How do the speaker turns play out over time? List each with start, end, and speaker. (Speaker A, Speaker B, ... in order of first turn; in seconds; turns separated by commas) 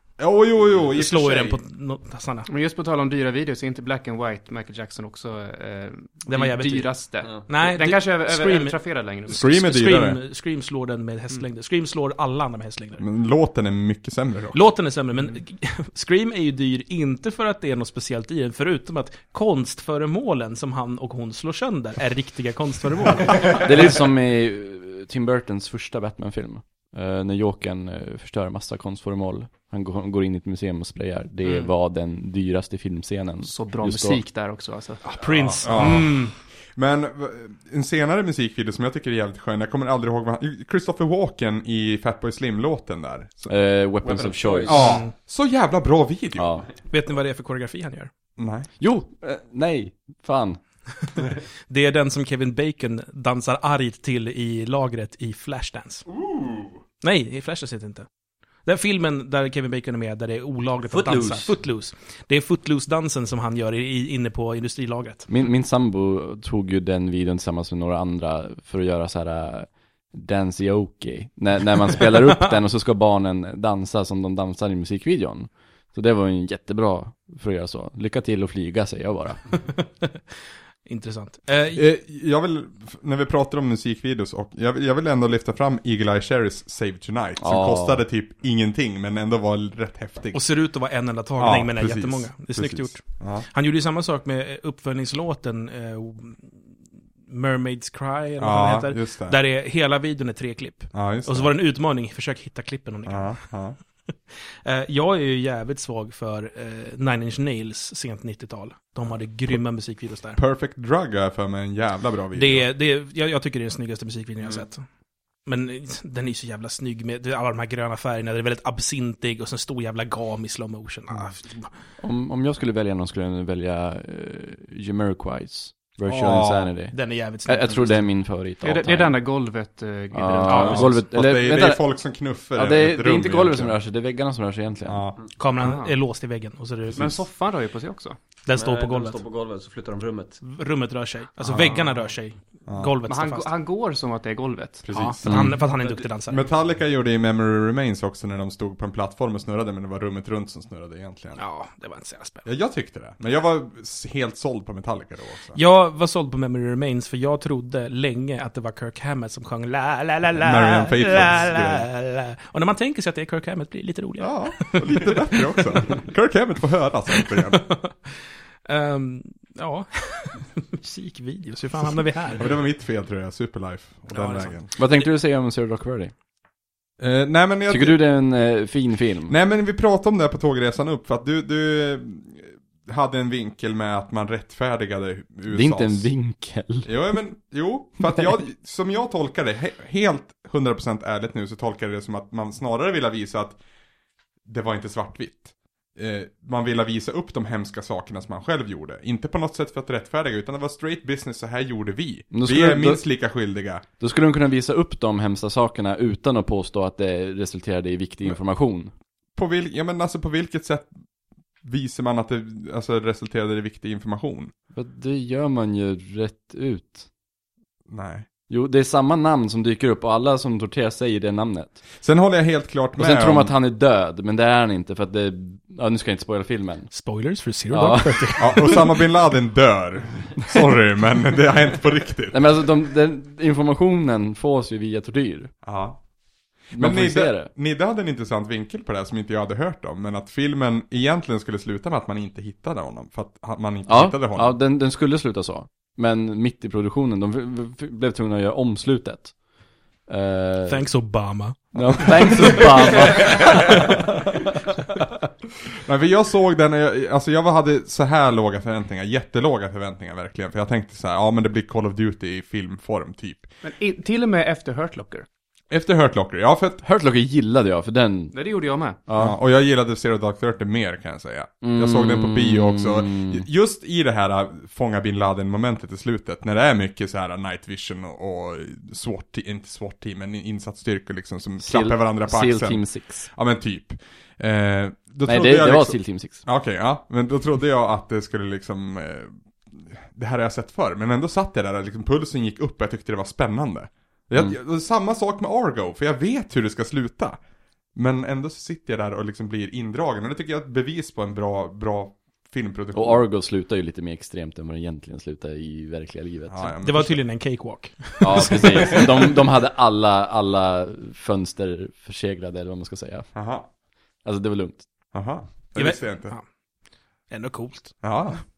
Speaker A: 0.2-1.6, Speaker B: 0.9-2.5, Speaker C: 2.5-9.4, Speaker B: 6.3-13.0, Speaker A: 9.3-10.2, Speaker A: 13.0-14.6, Speaker B: 14.5-23.7, Speaker D: 23.5-34.2, Speaker C: 33.4-35.0, Speaker B: 35.0-36.3, Speaker A: 35.6-43.5, Speaker D: 43.5-45.0, Speaker E: 44.0-44.8, Speaker A: 44.7-46.6, Speaker B: 44.8-45.1, Speaker D: 46.4-46.7, Speaker B: 46.9-48.1, Speaker A: 48.4-48.7, Speaker D: 48.8-50.6, Speaker B: 51.7-56.1, Speaker A: 56.1-56.8, Speaker B: 57.0-58.1, Speaker B: 58.6-65.3, Speaker E: 60.9-61.5, Speaker D: 65.3-79.8, Speaker B: 79.7-80.2, Speaker B: 80.9-81.8, Speaker A: 81.7-90.4, Speaker D: 87.4-88.0, Speaker B: 90.3-96.6, Speaker A: 91.4-93.5, Speaker B: 97.3-103.5, Speaker A: 98.4-99.4, Speaker A: 100.9-101.5, Speaker A: 103.1-103.8, Speaker B: 104.3-110.4, Speaker A: 110.3-112.7, Speaker B: 112.3-114.8, Speaker B: 115.5-121.7, Speaker D: 122.0-129.2, Speaker A: 126.1-126.7, Speaker B: 126.9-128.0, Speaker C: 128.6-131.0, Speaker D: 130.1-131.8, Speaker B: 130.4-131.0, Speaker A: 130.8-133.8, Speaker D: 132.6-135.1, Speaker A: 134.8-135.2, Speaker B: 135.4-137.2, Speaker C: 135.6-135.9, Speaker C: 136.9-138.2, Speaker B: 138.5-139.2, Speaker E: 138.6-140.4, Speaker B: 140.4-143.5, Speaker C: 141.5-141.9, Speaker A: 142.7-142.9, Speaker C: 143.1-145.1, Speaker A: 144.8-145.6, Speaker B: 144.9-146.5, Speaker D: 145.2-145.6, Speaker A: 146.3-151.4, Speaker B: 151.4-152.4, Speaker A: 152.4-155.6, Speaker B: 155.6-166.0, Speaker A: 160.4-161.9, Speaker A: 164.2-167.7, Speaker B: 167.2-172.5, Speaker A: 172.4-174.7, Speaker B: 174.1-174.6, Speaker D: 174.8-176.1, Speaker A: 177.0-178.0, Speaker D: 177.7-179.3, Speaker A: 179.3-186.1, Speaker D: 185.5-187.1, Speaker A: 186.8-193.6, Speaker A: 194.4-203.8, Speaker D: 202.3-203.0, Speaker D: 204.0-208.9, Speaker A: 209.3-210.9, Speaker A: 211.6-214.5, Speaker D: 214.7-217.1, Speaker A: 217.9-218.3, Speaker D: 218.5-221.8, Speaker A: 222.0-223.6, Speaker D: 223.0-227.1, Speaker B: 226.9-229.1, Speaker D: 227.7-228.7, Speaker A: 228.4-232.5, Speaker D: 232.3-235.5, Speaker A: 235.6-236.0, Speaker A: 236.7-244.6, Speaker D: 236.7-237.5, Speaker D: 243.9-249.4, Speaker D: 250.1-251.1, Speaker B: 250.7-253.6, Speaker D: 251.8-254.0, Speaker A: 255.8-263.5, Speaker C: 263.6-265.3, Speaker A: 265.7-266.8, Speaker D: 266.8-268.3, Speaker C: 268.3-269.0, Speaker D: 269.1-269.4, Speaker A: 269.2-297.4, Speaker D: 271.6-273.4, Speaker D: 281.6-283.3, Speaker D: 285.3-286.5, Speaker A: 297.9-303.3, Speaker D: 302.9-306.8, Speaker A: 306.5-307.2, Speaker B: 306.8-309.2, Speaker D: 308.2-313.3, Speaker A: 313.4-313.7, Speaker D: 314.2-314.9, Speaker A: 315.1-316.4, Speaker B: 315.8-316.4, Speaker B: 317.3-318.0, Speaker A: 318.0-318.4